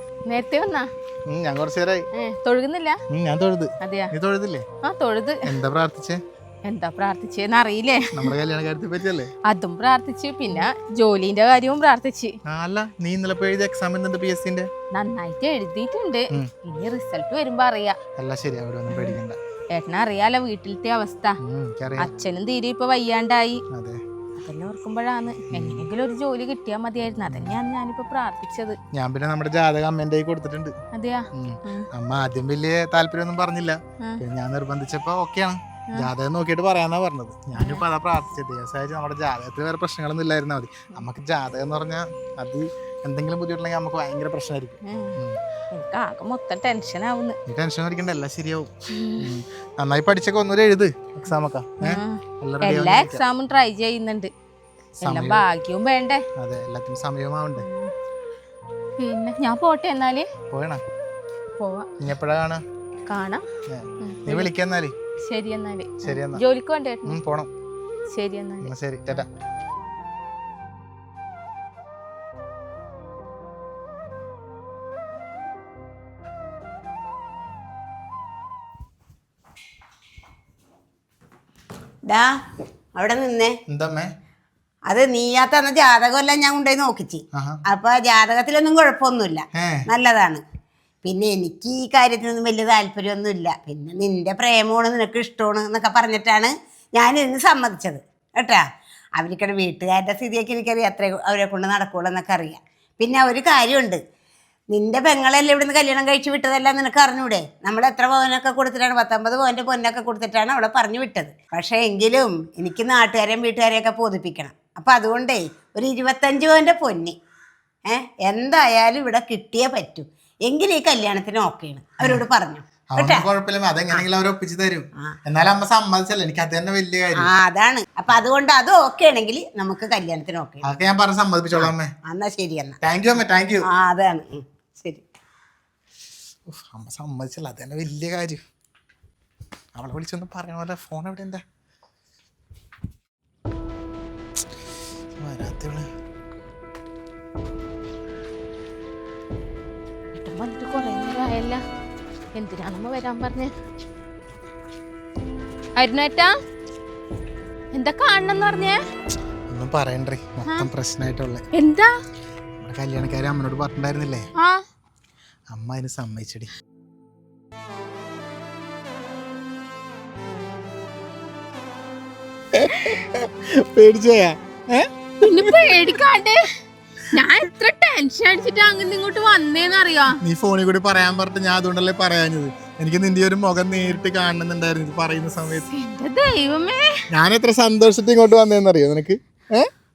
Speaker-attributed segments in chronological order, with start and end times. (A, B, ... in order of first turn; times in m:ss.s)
0:00.3-0:00.9 A
0:01.3-0:02.0 B
0:02.2-0:03.0 A
0:03.1-0:04.6 B
0:03.8-0:04.1 A
0:04.8-0:05.4 A
0:05.5-0:06.2 B
0:06.7-0:08.3 A
0:08.1-0:09.3 B
0:09.5-0:12.3 A
0:12.5-0:14.7 B
0:14.9-0:18.0 A
0:18.2-0:19.4 B
0:18.9-0:19.2 A
0:19.7-0:21.4 A
0:21.4-0:22.1 B
0:22.0-0:23.6 A
0:23.7-0:24.0 B
0:24.4-0:28.8 A
0:25.5-0:25.9 B
0:28.9-0:30.7 B
0:30.9-0:31.9 A
0:31.4-0:45.4 B
0:37.6-0:37.8 A
0:44.8-0:45.2 A
0:45.7-0:47.4 A
0:47.5-0:53.2 B
0:48.9-0:49.3 A
0:51.8-0:54.3 A
0:55.0-0:55.4 B
0:55.0-0:56.2 A
0:56.4-0:57.7 B
0:57.6-0:57.9 A
0:59.0-1:00.3 A
1:00.5-1:00.8 B
1:01.6-1:01.9 A
1:02.0-1:02.6 B
1:03.1-1:03.4 A
1:03.7-1:04.9 B
1:04.0-1:04.5 A
1:05.3-1:07.2 A
1:06.0-1:06.4 B
1:07.1-1:07.5 B
1:08.1-1:08.7 A
1:08.6-1:09.3 B
1:22.1-1:22.3 C
1:23.0-1:23.6 C
1:23.7-1:24.1 B
1:24.9-1:30.4 C
1:27.3-1:27.6 B
1:29.6-1:29.9 B
1:31.0-1:38.6 C
1:39.2-1:44.0 C
1:44.7-1:57.2 C
1:57.9-2:03.3 C
2:02.9-2:07.3 B
2:07.2-2:10.6 C
2:10.6-2:11.9 B
2:11.6-2:12.8 C
2:12.8-2:13.7 B
2:13.6-2:15.0 C
2:16.5-2:18.4 B
2:19.8-2:21.4 B
2:25.2-2:25.9 B
2:30.2-2:31.6 A
2:32.4-2:33.5 A
2:35.8-2:36.3 A
2:37.7-2:38.8 A
2:39.5-2:41.4 B
2:41.5-2:41.9 A
2:42.6-2:44.3 B
2:45.5-2:46.5 B
2:52.5-2:56.0 B
2:55.2-2:56.4 A
2:57.1-3:00.2 A
3:00.2-3:05.7 B
3:05.7-3:06.9 A
3:07.1-3:09.7 B